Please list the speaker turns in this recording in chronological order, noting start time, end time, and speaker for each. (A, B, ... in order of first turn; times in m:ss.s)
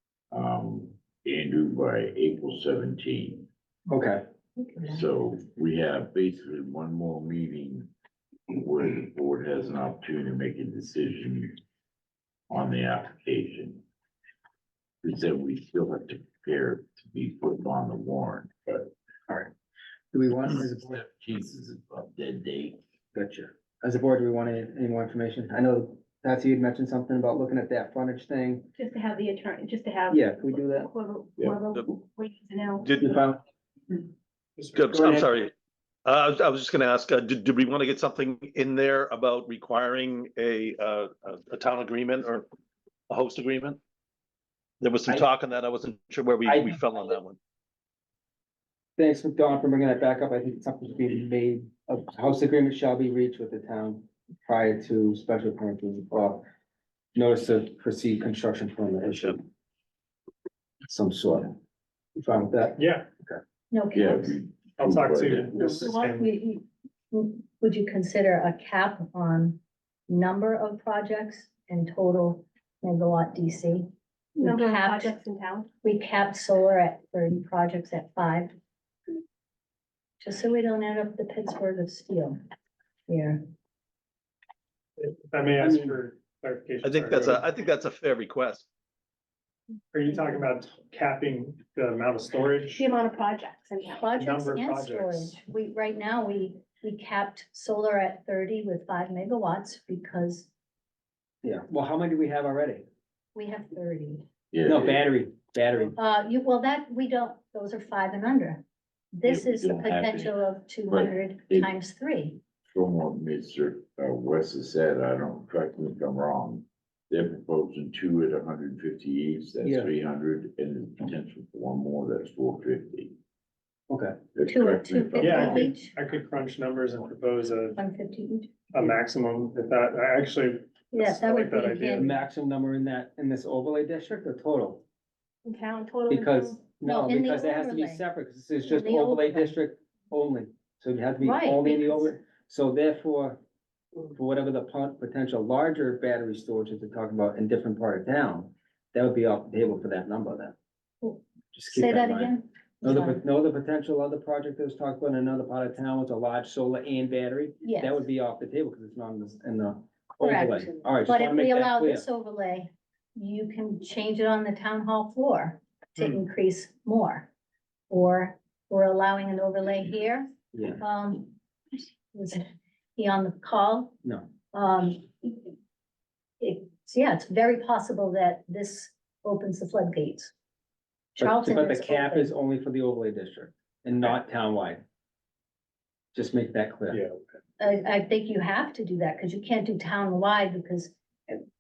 0:00.3-0:03.5 A
0:03.9-0:04.2 B
0:04.8-0:07.9 A
0:08.5-0:11.6 A
0:12.5-0:13.8 A
0:15.0-0:18.9 A
0:20.1-0:21.0 B
0:20.6-0:22.8 A
0:23.1-0:28.7 B
0:28.8-0:32.9 C
0:30.1-0:30.9 B
0:32.8-0:33.2 D
0:33.0-0:33.4 B
0:34.8-0:35.5 D
0:34.9-0:35.4 B
0:36.0-0:42.5 D
0:43.1-0:43.8 D
0:44.8-0:47.4 D
0:46.4-0:46.8 B
0:49.0-0:56.4 B
0:57.2-0:59.5 B
1:00.8-1:01.6 B
1:02.2-1:03.4 B
1:02.8-1:03.0 E
1:03.7-1:04.4 F
1:03.9-1:05.9 A
1:04.8-1:06.2 E
1:05.6-1:06.4 C
1:06.2-1:15.2 F
1:14.4-1:15.7 C
1:15.8-1:18.5 F
1:20.2-1:22.4 F
1:23.1-1:23.4 F
1:25.0-1:27.4 E
1:25.6-1:26.0 B
1:26.8-1:28.7 D
1:29.9-1:32.8 E
1:32.7-1:34.2 C
1:33.9-1:40.5 F
1:34.2-1:35.4 E
1:41.4-1:42.8 B
1:43.4-1:44.3 F
1:44.5-1:45.1 A
1:44.6-1:46.0 B
1:46.0-1:52.4 F
1:49.2-1:51.7 A
1:52.7-2:03.1 A
1:59.6-1:59.9 B
2:03.9-2:04.2 B
2:04.4-2:05.7 A
2:04.5-2:05.9 F
2:05.2-2:07.8 E
2:07.8-2:08.6 F
2:08.7-2:12.1 E
2:10.9-2:12.1 F
2:12.0-2:14.8 B
2:15.4-2:16.6 C
2:16.1-2:23.4 B
2:16.8-2:18.0 F
2:18.7-2:19.6 F
2:21.2-2:22.1 F
2:24.1-2:30.6 B
2:31.0-2:33.2 F
2:31.5-2:42.0 B
2:37.6-2:38.0 F
2:40.2-2:47.3 F
2:47.9-2:51.4 F
2:50.5-2:50.8 B
2:52.1-2:54.0 F
2:54.0-2:54.3 B
2:54.5-2:55.5 F
2:56.4-3:00.3 F
3:01.2-3:02.3 F
3:01.2-3:04.8 B
3:06.1-3:07.0 B
3:07.6-3:11.4 F